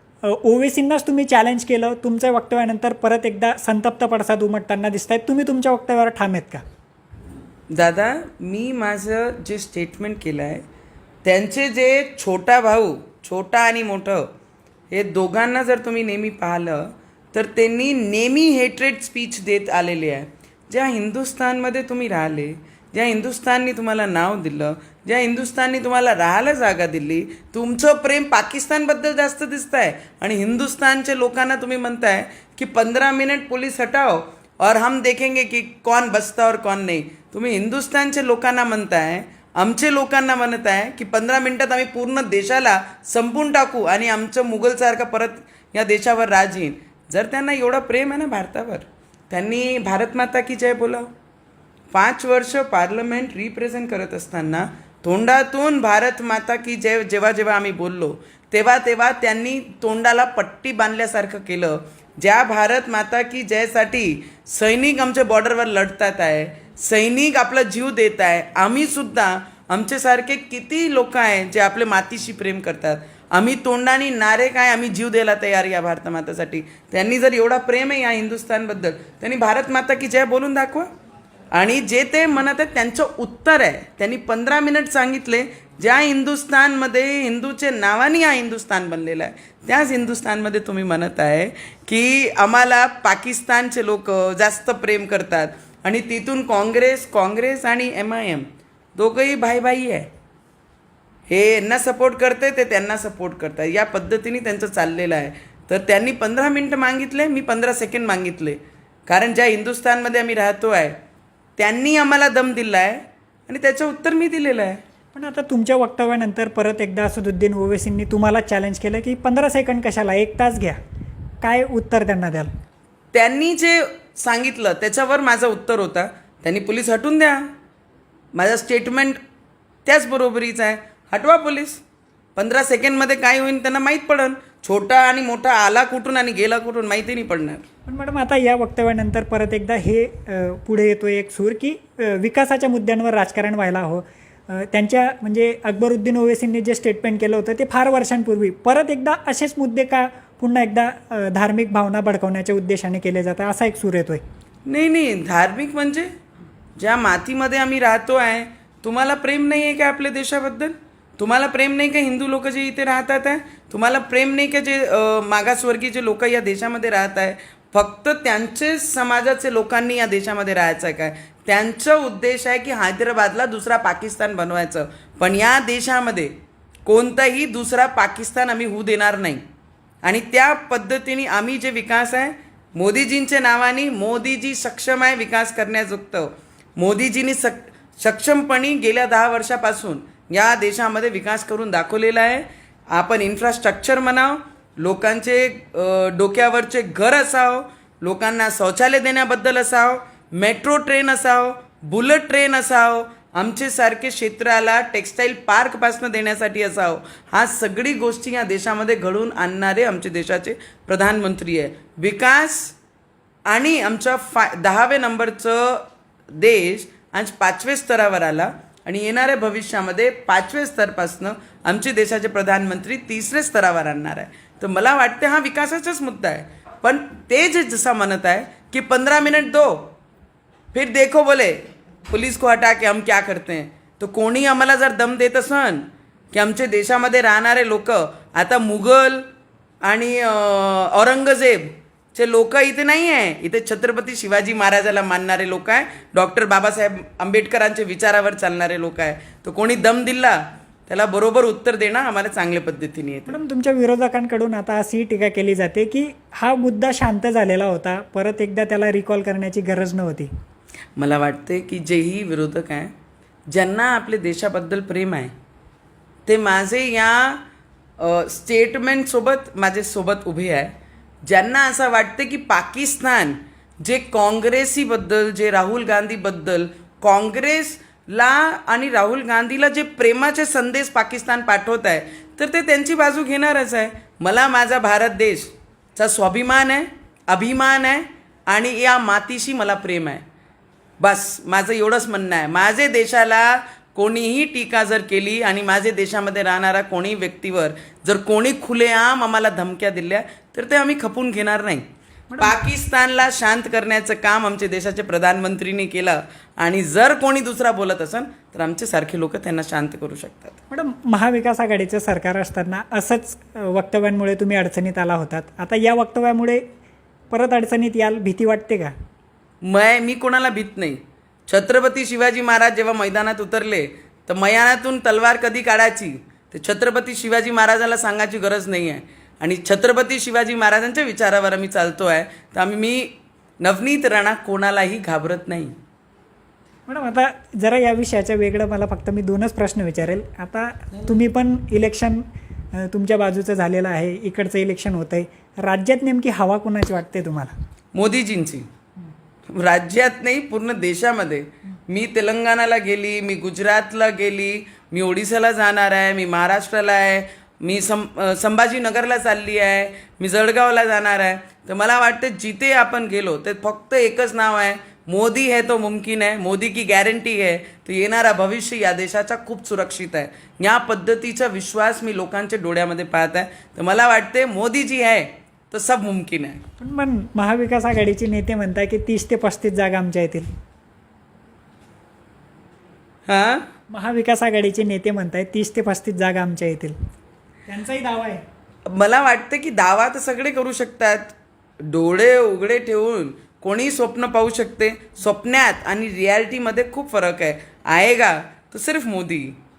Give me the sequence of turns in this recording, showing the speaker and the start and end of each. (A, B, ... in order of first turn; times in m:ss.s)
0:00.2-0:06.6 A
0:07.7-0:10.6 B
0:11.2-0:14.3 B
0:14.9-0:51.1 B
0:51.9-1:20.9 B
1:21.6-1:40.1 B
1:41.3-1:51.0 B
1:51.6-1:54.8 B
1:55.1-2:00.8 A
2:01.4-2:02.5 A
2:03.1-2:07.5 B
2:08.4-2:09.2 B
2:09.9-2:11.8 B
2:12.4-2:17.6 B
2:17.9-2:34.2 A
2:34.7-2:36.1 B
2:36.8-2:56.3 B
2:56.9-2:59.4 B
3:00.0-3:32.8 B
3:33.5-3:49.9 B
3:50.7-3:59.3 B
3:59.8-4:13.4 B
4:13.3-4:20.3 A
4:21.0-4:22.9 B
4:23.5-4:25.3 B
4:26.2-4:27.4 B
4:28.0-4:30.7 B
4:31.2-4:50.2 B
4:51.0-5:01.8 B
5:02.3-5:02.6 A
5:02.4-5:10.6 B
5:10.7-5:16.6 A
5:17.3-5:18.9 A
5:19.6-5:35.7 B
5:36.9-5:47.5 A
5:47.9-5:48.7 B
5:49.5-6:16.6 B
6:16.8-6:20.5 A
6:23.3-6:23.7 B
6:23.9-6:26.9 A
6:27.7-6:28.4 A
6:28.9-6:31.3 B
6:31.8-6:39.6 B